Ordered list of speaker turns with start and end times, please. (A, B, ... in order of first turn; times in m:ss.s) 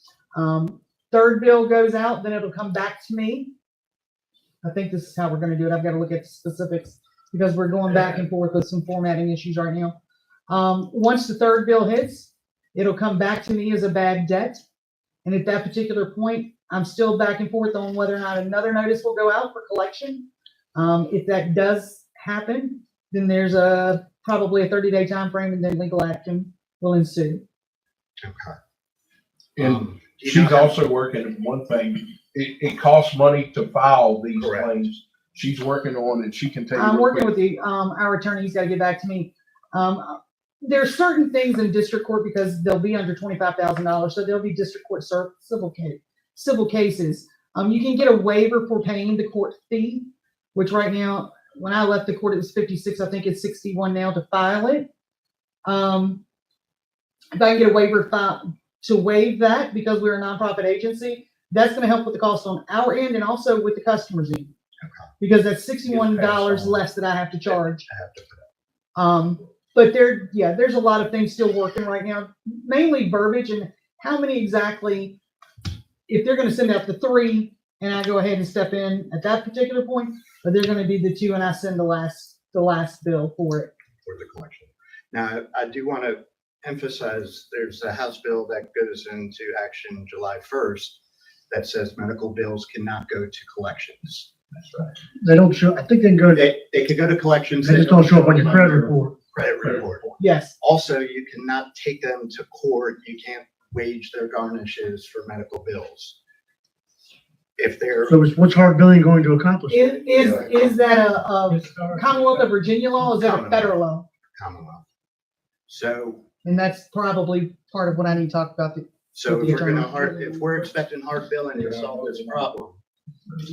0:00.3-0:03.5 A
0:04.6-0:10.0 A
0:10.5-0:14.6 A
0:15.2-0:27.4 A
0:28.2-0:28.6 B
0:29.6-0:37.3 C
0:29.6-0:30.8 B
0:34.4-0:34.7 B
0:36.7-0:54.9 A
0:55.6-0:56.2 A
0:57.3-1:04.5 A
1:04.8-1:05.1 B
1:05.2-1:07.8 A
1:05.9-1:06.8 B
1:07.5-1:08.5 B
1:08.9-1:15.2 A
1:16.1-1:23.7 A
1:24.0-1:31.0 B
1:31.5-1:34.9 B
1:35.2-1:36.5 D
1:36.3-1:46.2 B
1:37.6-1:39.2 D
1:40.2-1:40.6 A
1:47.6-1:48.2 B
1:48.1-1:50.7 D
1:49.7-1:54.0 A
1:50.1-1:51.0 B
1:51.5-1:52.5 D
1:53.0-1:53.7 B
1:54.3-1:54.8 B
1:55.7-1:56.3 B
1:56.4-2:00.1 A
1:59.1-2:02.8 B
2:01.6-2:02.1 C